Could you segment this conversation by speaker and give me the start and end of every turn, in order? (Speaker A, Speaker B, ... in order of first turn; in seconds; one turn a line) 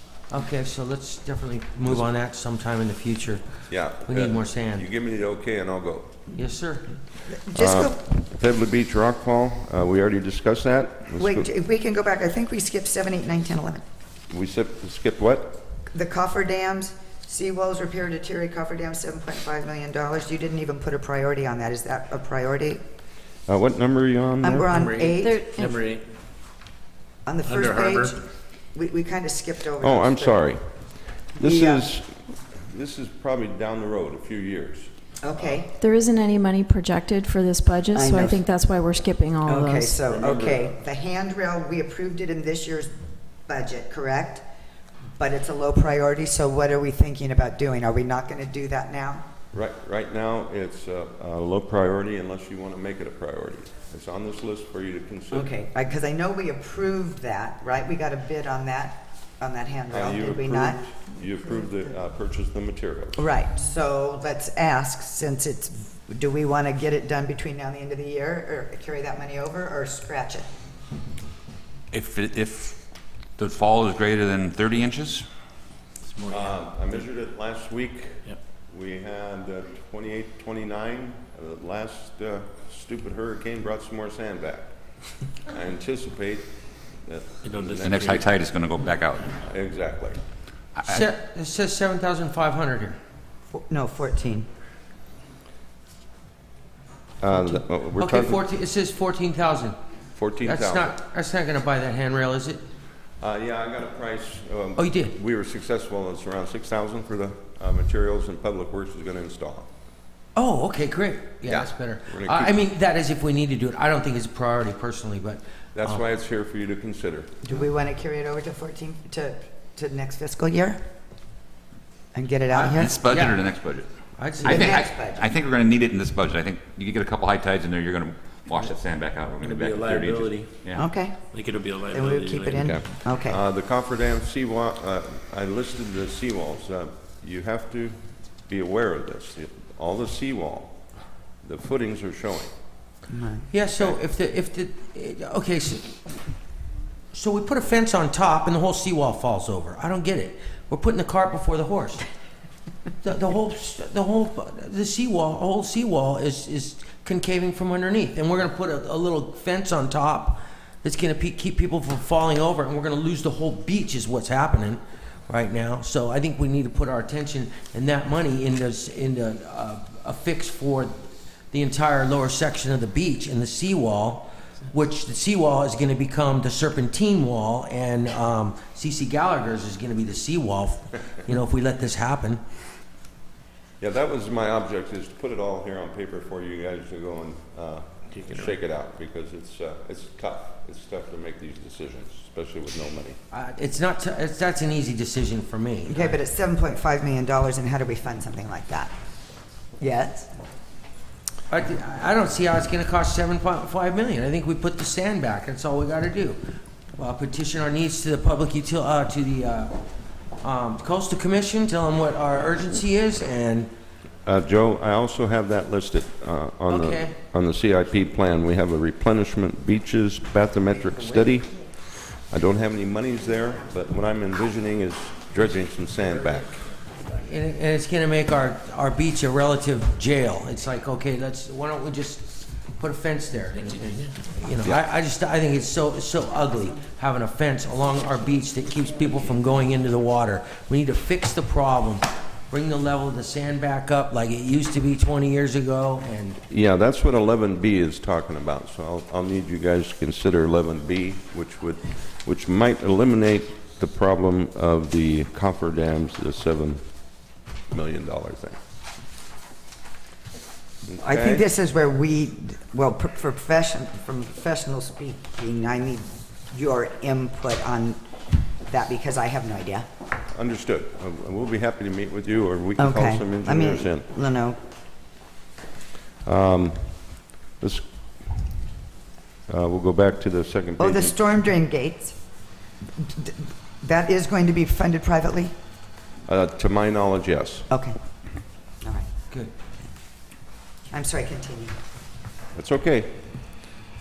Speaker A: 0.3-3.4
Speaker B: 3.7-6.2
Speaker A: 4.0-4.9
Speaker A: 6.3-6.9
Speaker C: 7.3-8.0
Speaker B: 7.6-11.5
Speaker C: 11.2-13.8
Speaker B: 14.3-15.6
Speaker C: 15.9-22.8
Speaker B: 23.5-24.7
Speaker C: 24.4-25.8
Speaker D: 24.7-26.1
Speaker E: 25.2-25.7
Speaker C: 27.3-28.2
Speaker D: 27.5-28.2
Speaker C: 28.7-30.4
Speaker B: 29.8-30.6
Speaker B: 31.4-32.2
Speaker C: 31.4-31.9
Speaker B: 32.7-34.9
Speaker C: 35.2-35.7
Speaker E: 35.8-40.0
Speaker C: 37.9-38.4
Speaker C: 39.5-42.9
Speaker B: 40.1-40.6
Speaker C: 43.5-44.4
Speaker C: 45.2-49.3
Speaker B: 49.5-55.5
Speaker C: 55.3-60.8
Speaker B: 59.9-63.2
Speaker C: 63.2-70.5
Speaker F: 71.9-72.8
Speaker F: 73.4-75.3
Speaker D: 76.0-76.6
Speaker B: 76.3-84.7
Speaker B: 85.4-88.1
Speaker D: 87.4-88.4
Speaker F: 87.8-89.3
Speaker B: 89.5-90.2
Speaker A: 90.8-93.0
Speaker C: 93.5-94.5
Speaker B: 97.2-98.5
Speaker A: 97.3-99.8
Speaker B: 100.1-101.0
Speaker A: 100.4-102.6
Speaker B: 103.2-109.7
Speaker A: 104.8-105.1
Speaker A: 110.4-116.0
Speaker B: 111.4-112.6
Speaker B: 115.8-117.3
Speaker C: 117.4-120.8
Speaker C: 122.1-122.9
Speaker A: 122.5-123.4
Speaker F: 122.8-123.9
Speaker A: 124.2-124.9
Speaker C: 124.4-125.3
Speaker F: 124.5-130.8
Speaker D: 129.4-130.7
Speaker C: 130.8-131.3
Speaker D: 131.3-132.8
Speaker C: 131.9-133.4
Speaker B: 132.5-140.8
Speaker B: 141.4-142.5
Speaker C: 143.1-143.5
Speaker A: 143.5-146.0
Speaker A: 147.1-152.1
Speaker A: 153.0-182.4
Speaker B: 183.8-193.2
Speaker D: 188.1-188.6
Speaker A: 193.3-196.2
Speaker C: 195.9-198.9
Speaker C: 199.8-200.3
Speaker A: 201.5-206.4
Speaker A: 207.0-209.7
Speaker A: 210.4-213.7
Speaker B: 214.2-226.6
Speaker A: 216.7-217.2
Speaker A: 227.2-246.4
Speaker B: 246.5-256.8
Speaker B: 257.7-258.6
Speaker B: 260.9-261.4
Speaker C: 261.0-268.0
Speaker C: 268.6-269.9
Speaker B: 270.3-274.1
Speaker C: 272.8-274.6
Speaker B: 276.2-277.9
Speaker B: 279.5-281.1
Speaker C: 280.8-282.2
Speaker C: 283.0-285.5
Speaker B: 286.3-287.7
Speaker C: 287.7-288.0
Speaker C: 288.8-289.1
Speaker C: 290.9-291.7
Speaker B: 292.6-293.2